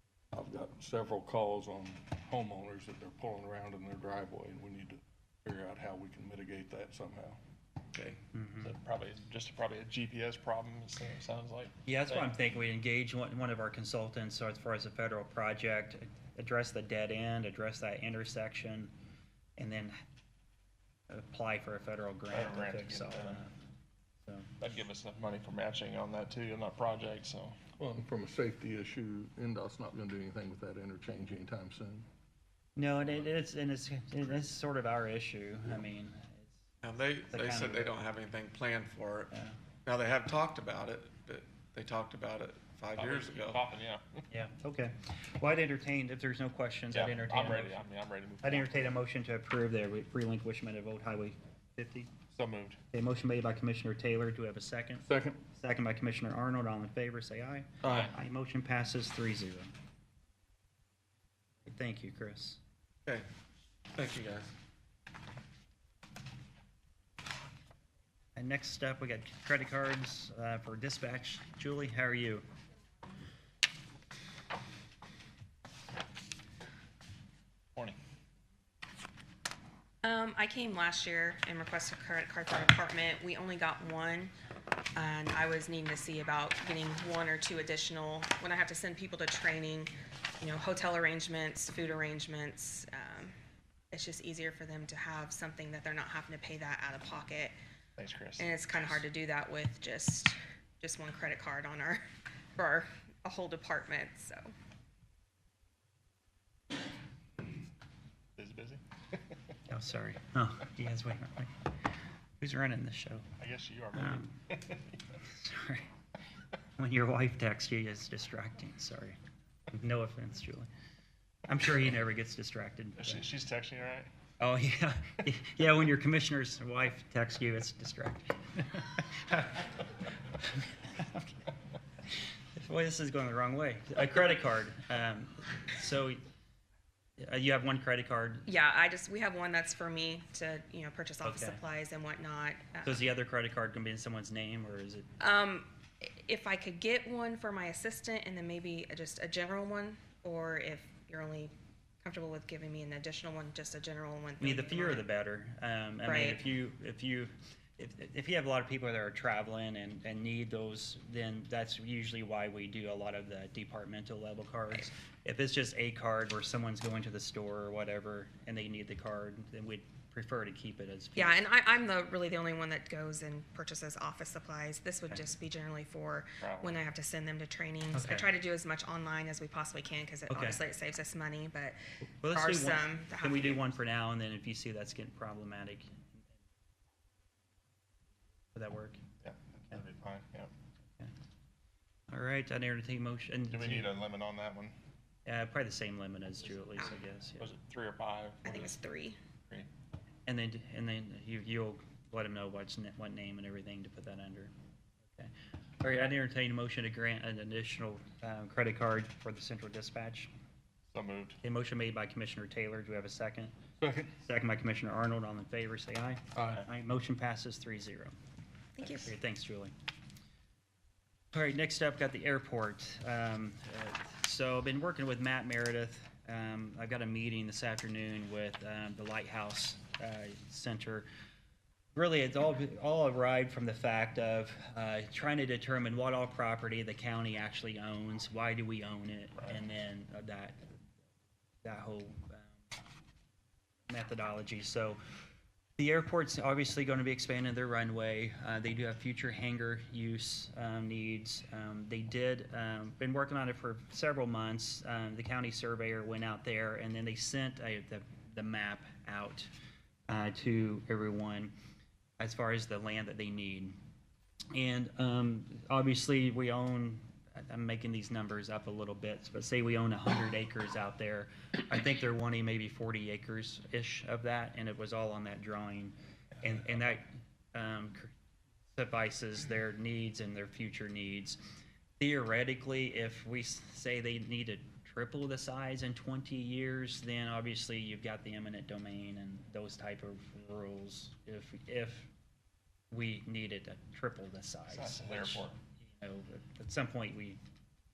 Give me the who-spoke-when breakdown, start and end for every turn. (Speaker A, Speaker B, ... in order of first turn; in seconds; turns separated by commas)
Speaker A: 0.3-7.4, Speaker B: 8.3-8.7, Speaker C: 8.6-12.3, Speaker B: 11.9-18.9, Speaker B: 19.6-20.0, Speaker B: 21.1-23.5, Speaker C: 22.3-23.4, Speaker B: 24.2-24.5, Speaker C: 24.6-27.6, Speaker A: 27.8-32.1, Speaker B: 32.8-36.6, Speaker D: 36.8-39.3, Speaker B: 37.3-37.9, Speaker B: 39.3-39.6, Speaker D: 39.9-43.6, Speaker C: 43.0-44.2, Speaker B: 44.3-47.8, Speaker C: 46.9-48.9, Speaker B: 48.4-52.1, Speaker C: 52.3-52.8, Speaker B: 52.9-59.7, Speaker A: 55.0-55.4, Speaker D: 57.8-58.1, Speaker B: 61.6-62.6, Speaker D: 63.9-64.5, Speaker B: 68.4-72.5, Speaker E: 80.0-84.3, Speaker E: 85.0-93.3, Speaker E: 93.9-97.5, Speaker C: 98.0-98.5, Speaker E: 98.4-102.0, Speaker E: 102.6-104.5, Speaker C: 108.4-108.8, Speaker B: 109.7-111.7, Speaker B: 112.4-113.3, Speaker C: 113.4-114.8, Speaker B: 113.9-114.4, Speaker B: 115.2-115.9, Speaker B: 116.8-119.2, Speaker B: 119.7-120.7, Speaker B: 121.5-123.2, Speaker C: 123.0-124.1, Speaker B: 124.4-129.7, Speaker B: 130.4-131.4, Speaker B: 132.5-136.2, Speaker B: 137.2-138.5, Speaker E: 138.5-143.0, Speaker B: 141.2-141.6, Speaker B: 142.8-145.1, Speaker E: 145.2-155.1, Speaker B: 154.4-171.4, Speaker E: 156.1-156.4, Speaker E: 171.2-183.7, Speaker C: 176.4-176.8, Speaker B: 177.9-178.3, Speaker B: 180.3-180.6, Speaker B: 182.2-186.3, Speaker B: 188.5-189.0, Speaker C: 189.2-190.5, Speaker B: 192.1-193.9, Speaker C: 193.5-194.8, Speaker B: 195.3-197.5, Speaker C: 197.4-198.8, Speaker E: 198.4-199.2, Speaker B: 200.3-204.5, Speaker B: 205.1-210.3, Speaker C: 210.9-211.4, Speaker B: 211.4-213.5, Speaker A: 213.8-214.1, Speaker B: 214.2-218.2, Speaker A: 216.3-216.7, Speaker E: 218.8-219.1, Speaker B: 218.8-219.7, Speaker B: 221.3-231.1, Speaker B: 231.9-240.6, Speaker B: 241.6-242.6, Speaker B: 243.9-245.0, Speaker B: 245.8-259.5, Speaker B: 260.1-261.5, Speaker B: 262.2-263.7, Speaker B: 264.5-278.1, Speaker B: 278.7-281.4, Speaker B: 282.0-292.1, Speaker B: 292.9-297.4, Speaker C: 294.7-295.6